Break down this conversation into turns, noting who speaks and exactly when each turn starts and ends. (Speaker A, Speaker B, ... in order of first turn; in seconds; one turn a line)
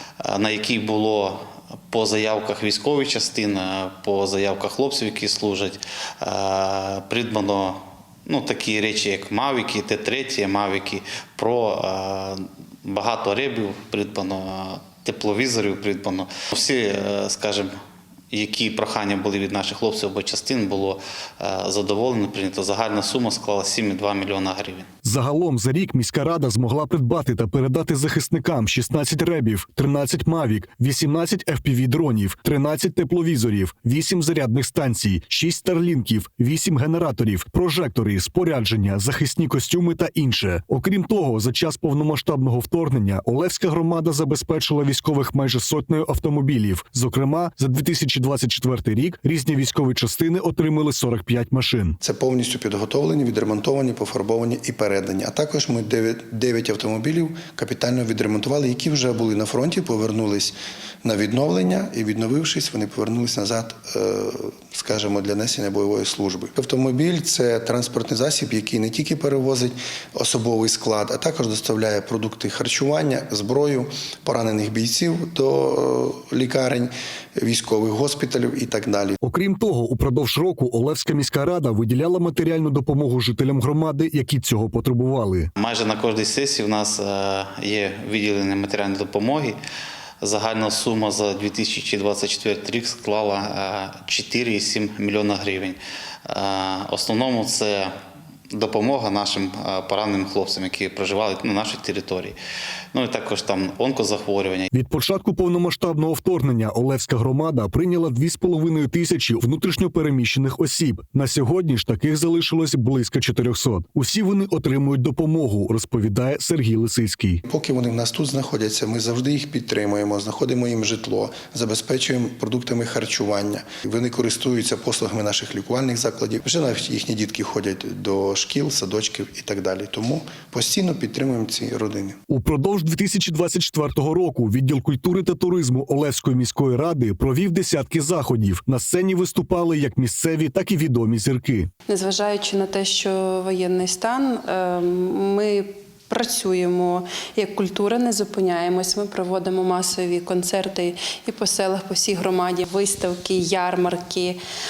Speaker A: 0.2-17.7
Speaker A: 18.3-24.9
Speaker B: 25.0-52.0
Speaker C: 52.0-79.2
Speaker B: 79.2-85.5
Speaker A: 85.6-89.6
Speaker A: 90.2-97.9
Speaker A: 98.5-102.4
Speaker A: 102.9-104.7
Speaker B: 104.7-117.4
Speaker C: 117.4-132.2
Speaker B: 132.3-141.7
Speaker D: 141.9-154.4